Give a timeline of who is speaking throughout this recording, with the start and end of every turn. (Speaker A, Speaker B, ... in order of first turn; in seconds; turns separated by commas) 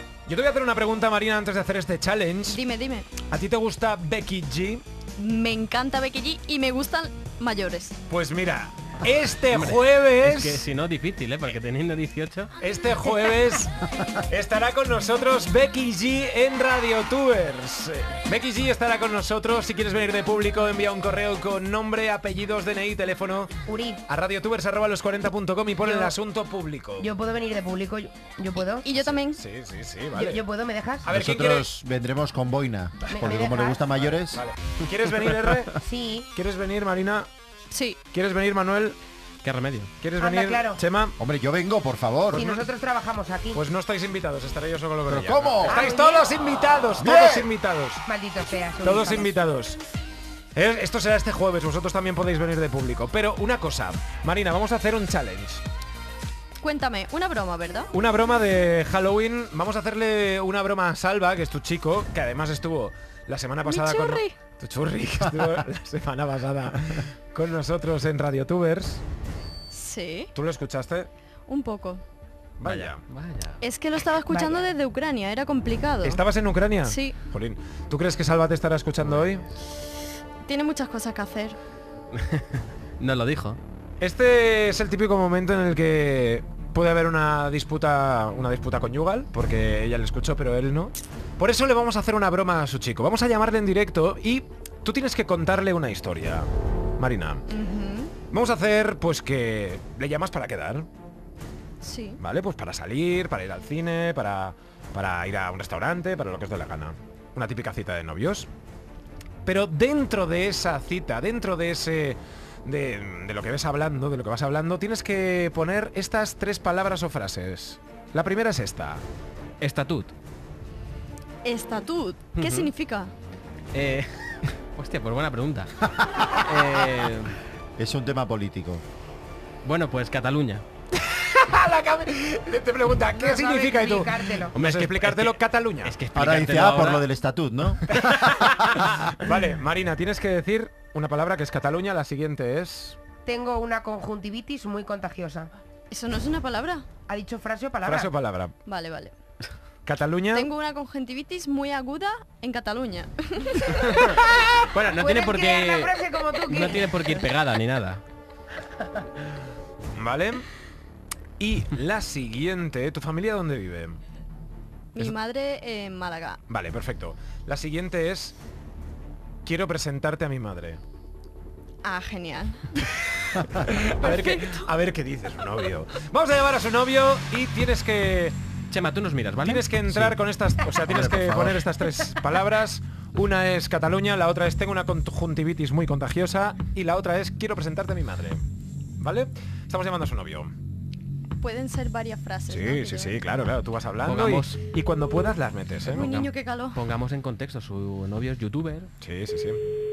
Speaker A: 0.3-2.6, Speaker B: 2.5-3.1, Speaker A: 3.3-4.8, Speaker B: 5.2-8.0, Speaker A: 8.1-10.6, Speaker C: 10.3-12.5, Speaker A: 12.6-23.5, Speaker D: 23.7-24.0, Speaker A: 24.1-27.1, Speaker D: 25.8-26.1, Speaker D: 27.0-29.0, Speaker B: 28.8-29.4, Speaker A: 29.3-30.4, Speaker D: 30.1-31.1, Speaker A: 31.0-31.7, Speaker E: 31.1-34.4, Speaker D: 33.1-33.9, Speaker A: 34.0-35.8, Speaker D: 35.8-36.3, Speaker A: 36.3-37.3, Speaker B: 37.7-38.0, Speaker A: 38.1-39.0, Speaker C: 39.5-39.8, Speaker A: 40.0-41.1, Speaker D: 40.2-40.8, Speaker E: 41.2-42.5, Speaker A: 42.3-42.6, Speaker D: 42.3-43.6, Speaker A: 43.5-48.0, Speaker E: 45.1-45.8, Speaker D: 45.6-46.3, Speaker E: 47.0-47.5, Speaker D: 48.0-49.4, Speaker A: 48.8-49.8, Speaker A: 50.5-55.6, Speaker B: 56.6-57.9, Speaker A: 57.9-69.0, Speaker B: 63.6-64.3, Speaker B: 69.7-70.3, Speaker A: 70.3-71.1, Speaker B: 71.5-72.0, Speaker A: 72.6-73.0, Speaker C: 72.8-73.5, Speaker B: 73.6-76.2, Speaker D: 74.3-74.7, Speaker A: 76.0-79.4, Speaker B: 76.8-77.2, Speaker B: 80.4-81.6, Speaker C: 83.0-83.6, Speaker A: 84.0-97.4, Speaker B: 97.5-98.1, Speaker A: 98.3-100.9, Speaker B: 101.8-102.2, Speaker A: 102.2-108.5, Speaker A: 109.5-119.0, Speaker C: 119.6-120.1, Speaker B: 121.4-123.1, Speaker C: 123.8-125.7, Speaker C: 126.5-127.3, Speaker E: 127.8-128.8, Speaker C: 129.6-130.6, Speaker A: 131.1-135.9, Speaker D: 133.1-134.6, Speaker C: 135.9-137.0, Speaker E: 136.1-138.8, Speaker A: 137.9-143.0, Speaker D: 143.2-145.5, Speaker B: 145.9-146.8, Speaker D: 147.1-148.2, Speaker A: 147.8-148.5, Speaker B: 148.6-149.1, Speaker A: 149.8-150.5, Speaker B: 150.3-154.2, Speaker C: 154.8-155.8, Speaker D: 154.9-157.1, Speaker C: 156.9-158.0, Speaker A: 159.9-160.5, Speaker A: 161.4-164.0, Speaker B: 164.9-166.4, Speaker A: 166.5-168.3, Speaker A: 169.4-170.8, Speaker B: 171.8-172.9, Speaker A: 173.3-178.3, Speaker B: 173.6-174.6, Speaker C: 178.7-179.4, Speaker A: 179.4-188.4, Speaker E: 180.9-181.6, Speaker A: 189.0-190.5, Speaker B: 191.4-193.2, Speaker A: 192.5-196.1, Speaker C: 194.1-194.5, Speaker B: 195.9-196.8, Speaker C: 196.8-198.8, Speaker A: 199.0-199.6